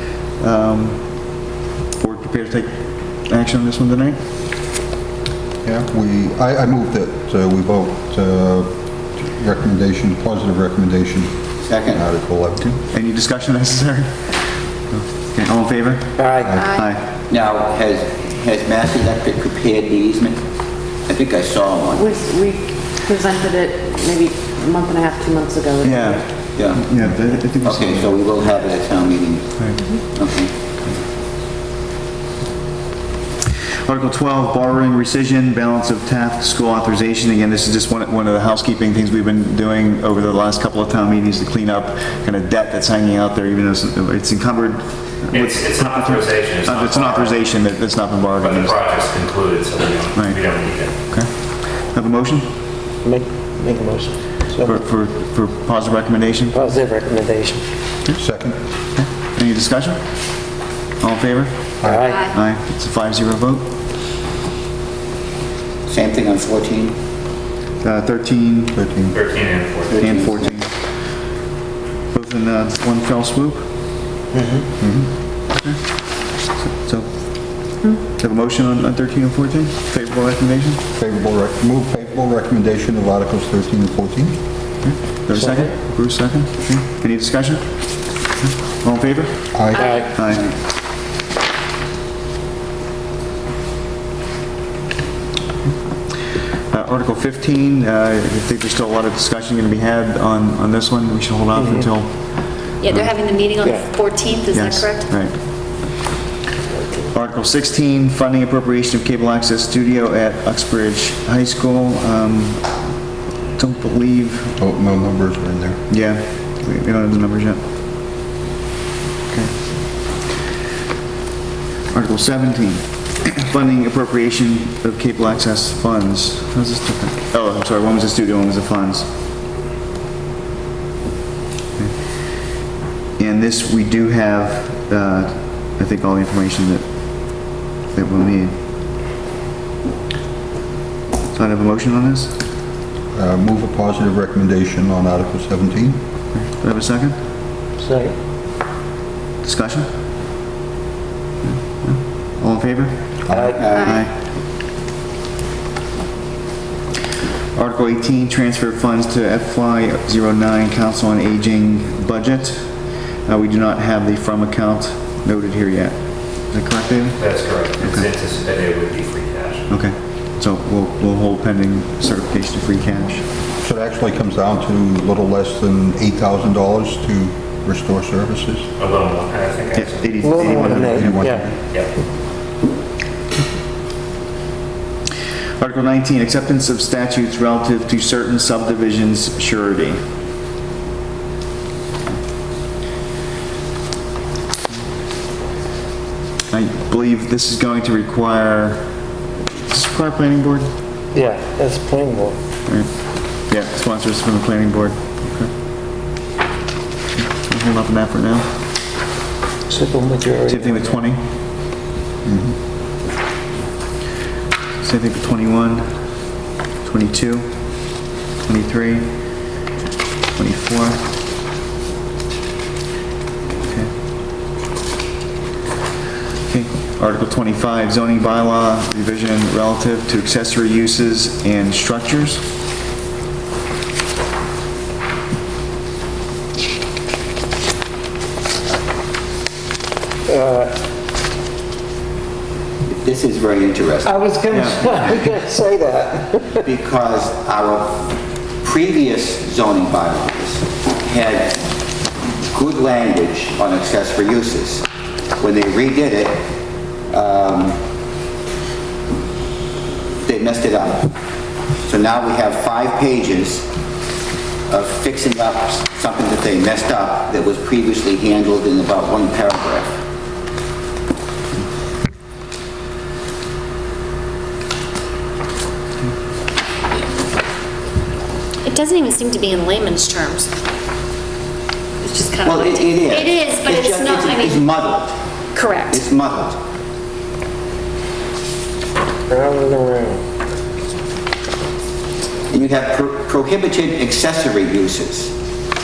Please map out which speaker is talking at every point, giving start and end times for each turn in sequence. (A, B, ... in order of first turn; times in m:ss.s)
0:00.4-0:01.0 A
0:02.0-0:02.7 A
0:03.3-0:04.2 A
0:05.6-0:12.7 B
0:11.7-0:12.0 C
0:12.6-0:14.2 A
0:14.9-0:17.0 A
0:16.2-0:16.6 D
0:16.4-0:16.7 B
0:16.5-0:16.9 E
0:17.3-0:20.4 C
0:21.1-0:22.1 C
0:21.9-0:26.3 F
0:25.8-0:28.1 A
0:26.6-0:26.9 C
0:27.6-0:30.5 C
0:33.9-0:48.8 A
0:45.3-0:47.5 G
0:48.4-0:51.0 G
0:50.2-0:50.4 A
0:50.9-0:52.5 A
0:53.0-0:54.9 D
0:54.6-0:56.7 A
0:56.5-0:57.7 D
0:58.2-0:58.6 B
0:59.0-1:00.0 A
1:01.0-1:03.7 A
1:01.8-1:02.3 D
1:02.1-1:02.4 E
1:05.9-1:07.0 C
1:07.8-1:08.8 A
1:08.7-1:09.2 B
1:09.1-1:10.2 G
1:09.9-1:10.5 C
1:10.0-1:10.7 A
1:12.1-1:13.6 A
1:14.3-1:14.6 D
1:14.8-1:15.1 B
1:15.5-1:15.8 A
1:16.6-1:17.1 A
1:18.1-1:20.8 A
1:21.0-1:24.4 B
1:24.8-1:27.7 A
1:25.3-1:25.8 D
1:28.4-1:29.5 A
1:29.5-1:30.0 B
1:29.7-1:30.0 E
1:29.8-1:30.2 D
1:30.1-1:30.5 A
1:36.7-1:42.1 A
1:41.6-1:41.9 D
1:42.8-1:45.1 E
1:42.9-1:43.1 A
1:43.6-1:43.9 D
1:44.5-1:45.4 A
1:47.1-1:52.7 A
1:53.6-1:54.6 A
1:54.6-1:55.8 B
1:55.9-1:57.6 A
2:01.9-2:09.1 A
2:13.2-2:18.6 A
2:21.3-2:22.3 A
2:23.1-2:26.0 B
2:26.3-2:27.2 A
2:27.8-2:28.2 D
2:29.4-2:29.9 A
2:31.4-2:33.2 A
2:33.3-2:33.6 B
2:33.3-2:33.8 D
2:33.6-2:33.9 C
2:33.7-2:34.0 E
2:33.8-2:34.1 A
2:37.6-2:42.7 A
2:43.3-2:47.2 A
2:47.2-2:49.7 G
2:47.8-2:48.1 A
2:49.7-2:53.3 A
2:53.6-2:58.7 B
2:58.8-3:00.8 G
2:59.8-3:01.2 A
3:00.2-3:01.5 D
3:00.8-3:01.6 B
3:05.6-3:10.0 A
3:16.5-3:18.8 A
3:19.7-3:20.7 A
3:21.1-3:22.4 D
3:23.5-3:25.5 A
3:27.2-3:28.5 A
3:29.7-3:30.9 D
3:30.5-3:31.2 A
3:32.2-3:32.6 B
3:34.8-3:35.9 A
3:36.8-3:37.8 A
3:38.4-3:39.1 A
3:40.4-3:41.0 A
3:43.7-3:43.9 A
3:46.5-3:52.4 A
4:00.3-4:00.7 D
4:02.8-4:04.2 C
4:04.0-4:06.7 D
4:04.5-4:05.2 A
4:06.6-4:11.6 C
4:12.5-4:14.9 C
4:15.4-4:16.5 C
4:17.1-4:17.8 C
4:20.2-4:21.1 C
4:21.8-4:23.7 C
4:24.7-4:30.0 C
4:38.6-4:40.5 E
4:42.0-4:44.7 E
4:42.4-4:45.2 C
4:45.6-4:46.0 E
4:45.9-4:46.6 C
4:49.3-4:50.2 D
4:52.5-4:55.3 C